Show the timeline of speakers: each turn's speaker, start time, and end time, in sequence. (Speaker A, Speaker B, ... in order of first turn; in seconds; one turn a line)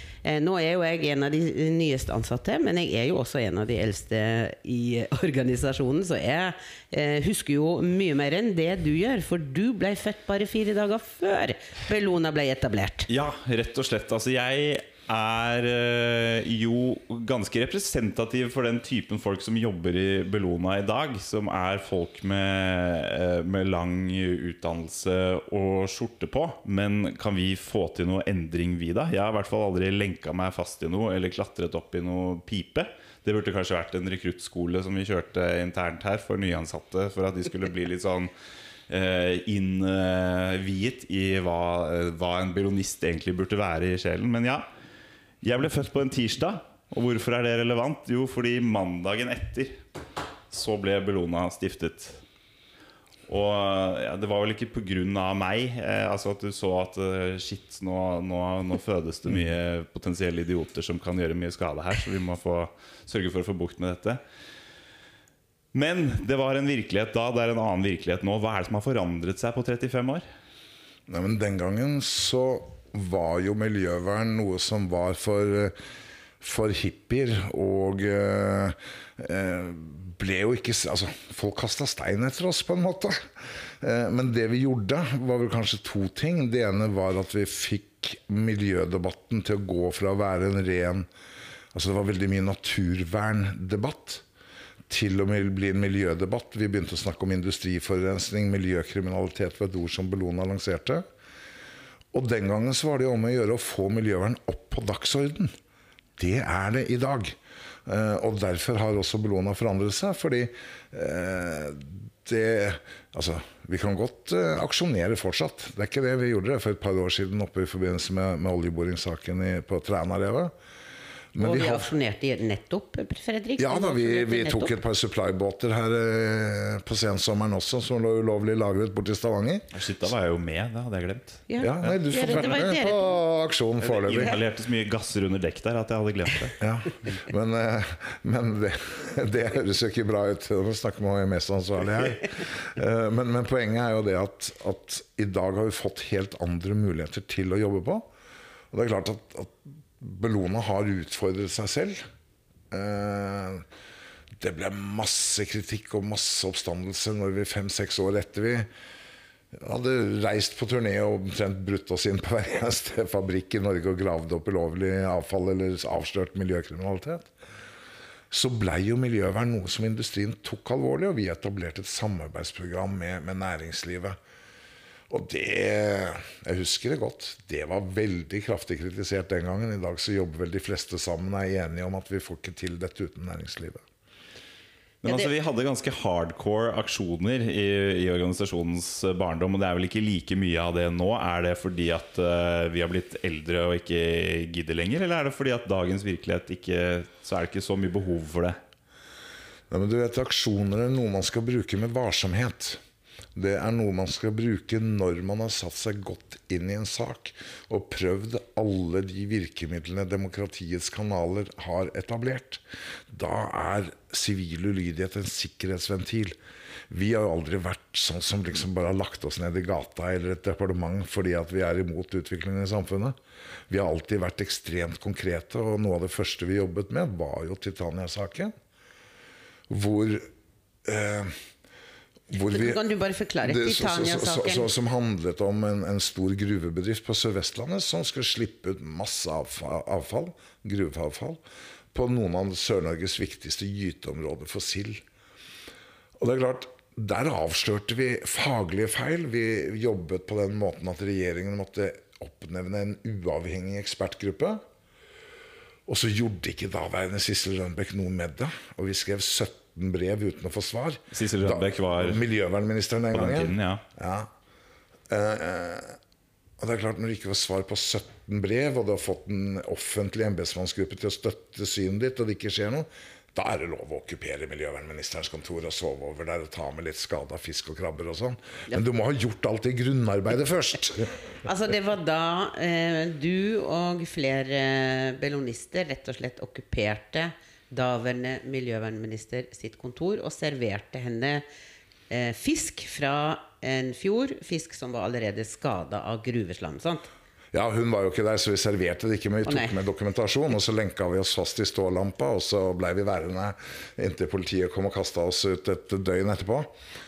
Speaker A: 0.2-13.1
Speaker B: 13.1-38.3
Speaker B: 38.9-44.7
Speaker B: 45.4-49.8
Speaker B: 50.5-52.2
Speaker B: 53.3-64.2
Speaker B: 65.7-70.2
Speaker C: 71.1-75.8
Speaker C: 76.4-91.1
Speaker C: 91.7-94.2
Speaker C: 94.9-101.0
Speaker C: 102.1-105.5
Speaker C: 106.2-120.5
Speaker C: 121.3-121.9
Speaker A: 121.4-124.7
Speaker C: 123.6-129.7
Speaker B: 129.7-131.9
Speaker A: 131.5-133.2
Speaker C: 131.6-134.3
Speaker B: 133.8-136.5
Speaker C: 136.6-148.1
Speaker C: 148.7-152.1
Speaker C: 152.7-153.7
Speaker C: 154.4-158.7
Speaker C: 159.5-167.3
Speaker C: 168.3-174.2
Speaker C: 175.1-183.8
Speaker B: 185.0-198.6
Speaker C: 199.7-202.8
Speaker C: 203.3-216.4
Speaker C: 216.9-223.2
Speaker C: 223.7-228.5
Speaker C: 229.7-230.3
Speaker C: 230.8-231.3
Speaker C: 232.3-232.8
Speaker A: 232.5-234.7
Speaker C: 233.4-241.4
Speaker C: 241.9-245.0
Speaker C: 246.2-254.6
Speaker C: 255.8-264.3
Speaker B: 261.1-262.2
Speaker B: 263.1-263.8
Speaker C: 265.1-266.0
Speaker C: 266.6-281.2
Speaker A: 281.4-291.4
Speaker A: 292.1-297.1
Speaker C: 297.5-306.7
Speaker A: 299.5-299.8